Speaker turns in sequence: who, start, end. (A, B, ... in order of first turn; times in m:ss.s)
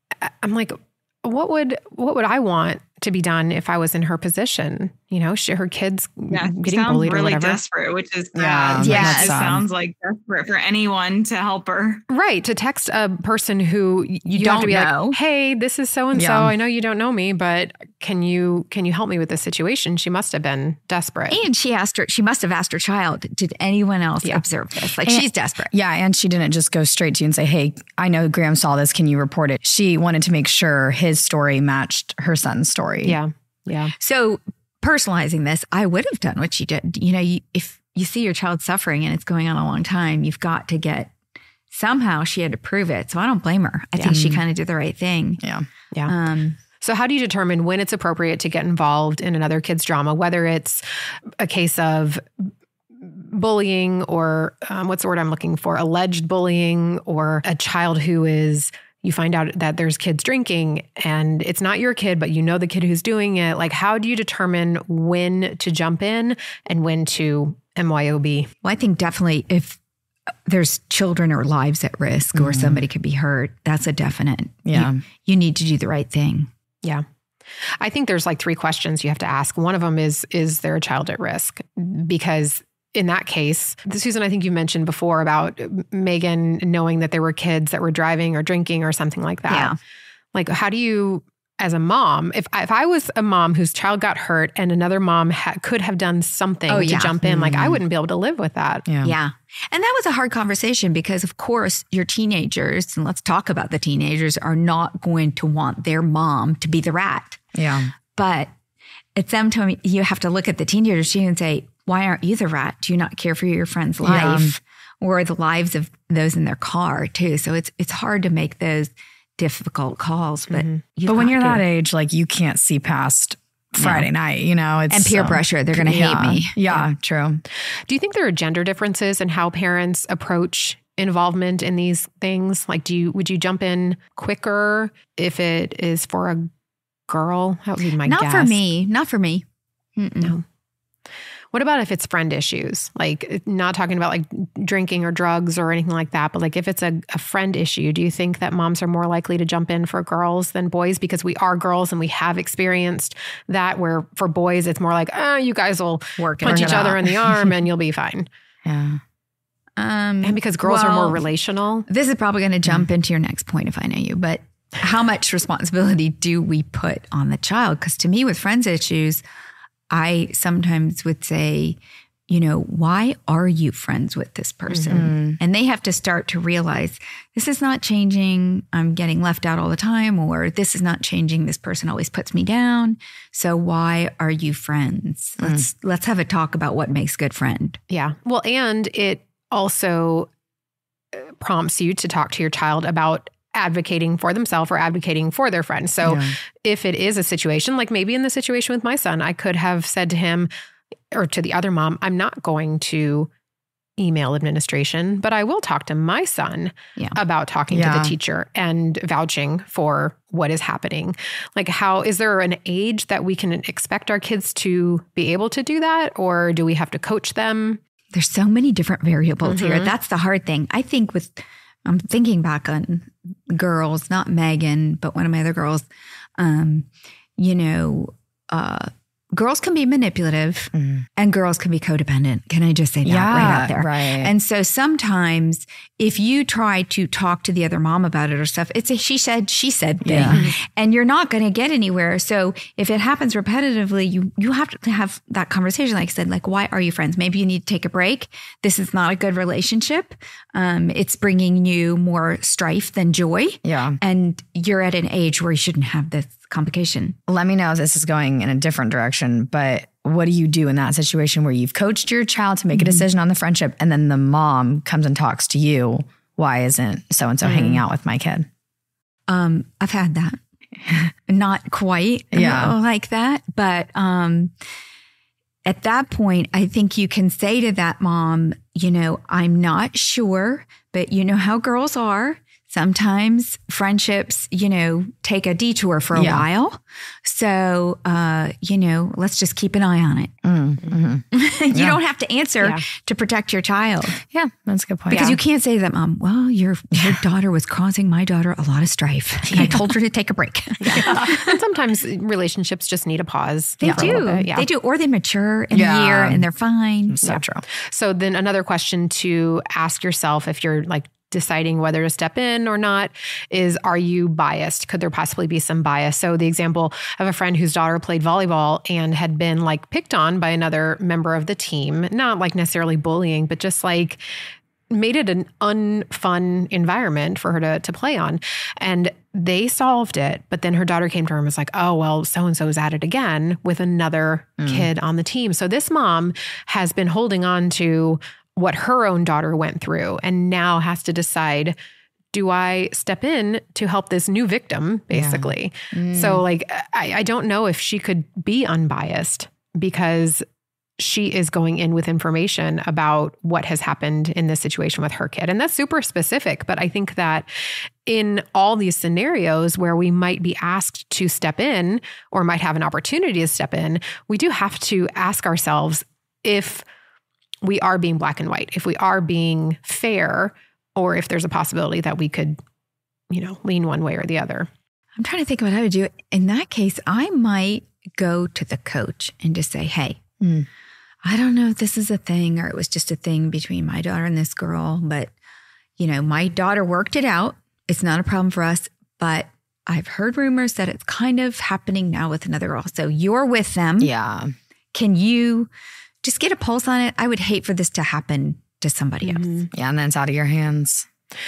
0:00.2-0:07.6 A
0:06.3-0:12.0 B
0:08.3-0:09.7 C
0:08.8-0:09.4 D
0:12.1-0:21.4 A
0:14.3-0:15.2 D
0:16.1-0:16.5 C
0:21.3-0:25.7 D
0:25.0-0:33.2 C
0:33.0-0:33.9 A
0:34.0-0:41.1 D
0:41.7-0:45.4 D
0:44.1-0:44.4 C
0:46.1-0:46.6 D
0:46.8-0:50.8 A
0:51.4-0:52.5 A
0:53.0-1:08.5 A
1:08.6-1:09.8 D
1:10.5-1:16.5 D
1:12.3-1:12.8 C
1:14.6-1:15.0 C
1:17.8-1:29.7 A
1:29.5-1:29.8 D
1:30.3-1:38.8 A
1:36.7-1:37.3 D
1:37.2-1:37.8 C
1:38.8-1:39.2 C
1:39.0-1:47.4 D
1:47.5-1:47.9 C
1:48.1-1:48.5 D
1:49.2-2:01.6 D
1:54.0-1:54.5 C
2:00.5-2:00.8 A
2:01.1-2:07.4 C
2:03.8-2:04.1 D
2:04.9-2:06.8 D
2:07.9-2:16.5 A
2:17.1-2:18.6 A
2:18.0-2:19.4 D
2:20.0-2:20.4 D
2:21.5-2:38.3 A
2:36.2-2:37.0 D
2:36.4-2:37.5 C
2:38.6-2:39.0 C
2:39.8-2:41.2 D
2:40.2-2:41.9 A
2:41.9-2:49.2 D
2:49.9-2:51.8 D
2:52.3-3:07.8 D
2:54.7-2:55.1 A
2:54.9-2:55.4 C
3:05.4-3:05.7 C
3:07.9-3:10.3 A
3:11.1-3:20.5 A
3:16.0-3:16.3 C
3:21.1-3:23.3 A
3:24.0-3:37.8 A
3:27.7-3:28.1 C
3:38.1-3:45.9 D
3:39.4-3:39.9 A
3:46.4-4:17.2 D
3:50.7-3:51.0 C
3:53.0-3:54.3 C
4:00.0-4:00.5 C
4:00.3-4:00.5 A
4:13.6-4:14.0 C
4:17.3-4:28.5 C
4:22.7-4:23.0 D
4:27.4-4:27.8 A
4:29.3-4:30.4 D
4:31.3-4:34.5 D
4:32.3-4:32.7 C
4:35.6-4:50.3 D
4:46.1-4:46.4 C
4:50.4-4:52.0 C
4:51.3-4:54.2 D
4:52.6-4:52.8 A
4:54.2-4:55.3 C
4:55.1-4:55.4 A
4:55.1-5:01.6 D
4:57.0-4:57.2 C
4:59.5-4:59.8 C
5:00.8-5:04.7 A
5:01.0-5:01.3 C
5:03.8-5:07.2 D
5:03.8-5:04.2 C
5:05.7-5:06.5 C
5:07.1-5:07.6 C
5:07.2-5:24.2 A
5:24.9-5:41.8 A
5:34.6-5:34.9 C
5:42.3-5:50.4 A
5:45.1-5:46.4 C
5:51.0-5:57.5 A
5:58.0-6:06.8 A
6:07.6-6:12.6 A
6:13.3-6:14.7 A
6:15.2-6:20.2 D
6:20.4-6:20.7 C
6:21.2-6:25.3 D
6:26.0-6:34.1 D
6:34.0-6:34.5 C
6:34.9-6:35.7 D
6:36.2-6:39.6 D
6:39.2-6:39.7 A
6:39.7-6:41.0 C